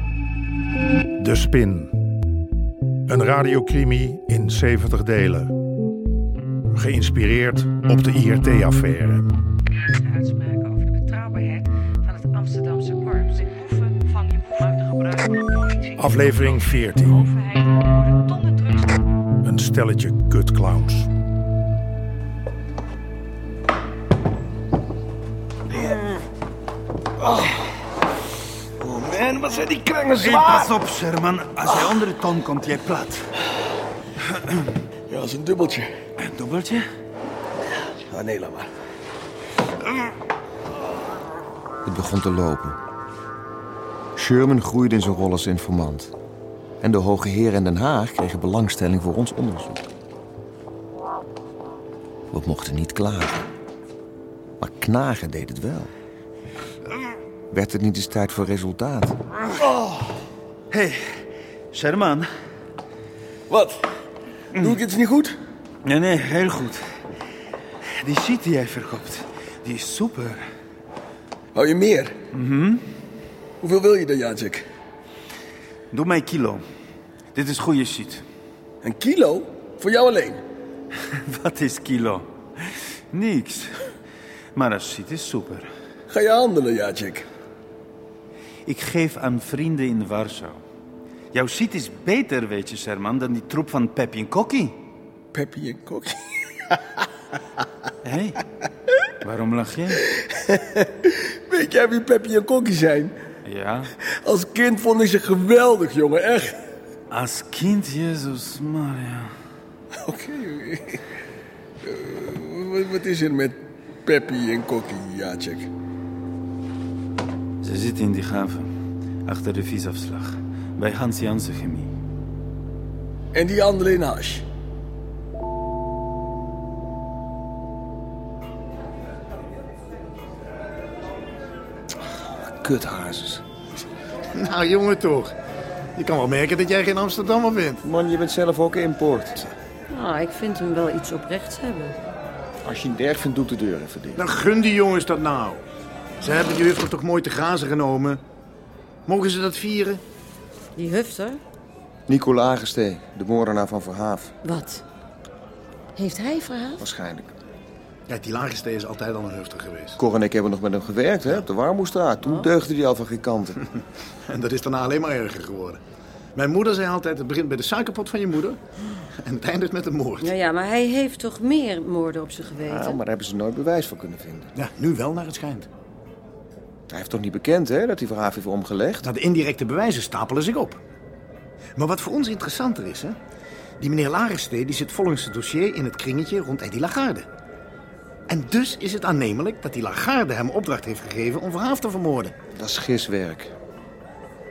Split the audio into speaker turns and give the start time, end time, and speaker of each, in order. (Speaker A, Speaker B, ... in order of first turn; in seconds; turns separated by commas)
Speaker A: 1.2-1.9, Speaker A: 3.1-5.5, Speaker A: 6.7-9.3, Speaker B: 10.0-19.0, Speaker A: 16.0-17.3, Speaker A: 19.4-21.1, Speaker C: 27.2-27.5, Speaker C: 28.8-30.8, Speaker D: 30.2-33.3, Speaker C: 35.1-35.9, Speaker D: 36.2-36.8, Speaker C: 38.1-38.7, Speaker E: 41.8-42.8, Speaker E: 44.2-46.1, Speaker E: 46.8-49.8, Speaker E: 52.3-53.5, Speaker E: 54.6-55.9, Speaker E: 57.5-59.2, Speaker C: 59.7-60.0, Speaker D: 60.7-61.2, Speaker D: 61.7-62.3, Speaker C: 63.5-63.8, Speaker C: 64.6-65.3, Speaker D: 65.8-66.8, Speaker D: 68.0-70.4, Speaker C: 71.5-72.2, Speaker D: 72.3-72.9, Speaker C: 73.6-74.6, Speaker D: 75.9-76.6, Speaker D: 77.3-78.2, Speaker C: 78.8-80.4, Speaker D: 81.2-83.9, Speaker D: 84.5-85.7, Speaker C: 86.1-87.2, Speaker D: 88.7-90.6, Speaker D: 91.3-94.8, Speaker C: 95.3-96.8, Speaker D: 98.0-98.4, Speaker D: 99.2-100.0, Speaker C: 100.1-103.2, Speaker D: 103.5-103.9, Speaker C: 104.2-106.6, Speaker D: 107.1-109.3, Speaker C: 110.0-111.0, Speaker C: 111.8-115.7, Speaker D: 117.6-118.7, Speaker D: 119.2-121.9, Speaker C: 123.3-124.4, Speaker E: 132.4-133.4, Speaker F: 134.3-135.3, Speaker F: 136.0-137.8, Speaker E: 137.8-139.4, Speaker G: 139.9-142.0, Speaker E: 142.6-144.2, Speaker F: 144.2-145.6, Speaker F: 146.2-148.2, Speaker F: 149.1-150.0, Speaker G: 150.8-151.4, Speaker E: 152.1-154.3, Speaker G: 154.4-154.8, Speaker G: 156.0-156.8, Speaker E: 156.8-157.3, Speaker F: 158.1-160.0, Speaker E: 160.0-163.6, Speaker F: 164.2-165.8, Speaker F: 166.3-170.3, Speaker G: 170.2-173.0, Speaker E: 172.7-174.5, Speaker F: 174.6-175.7, Speaker E: 176.9-179.0, Speaker F: 179.0-180.8, Speaker F: 181.8-183.2, Speaker F: 183.8-187.3, Speaker F: 188.3-192.3, Speaker E: 192.5-193.5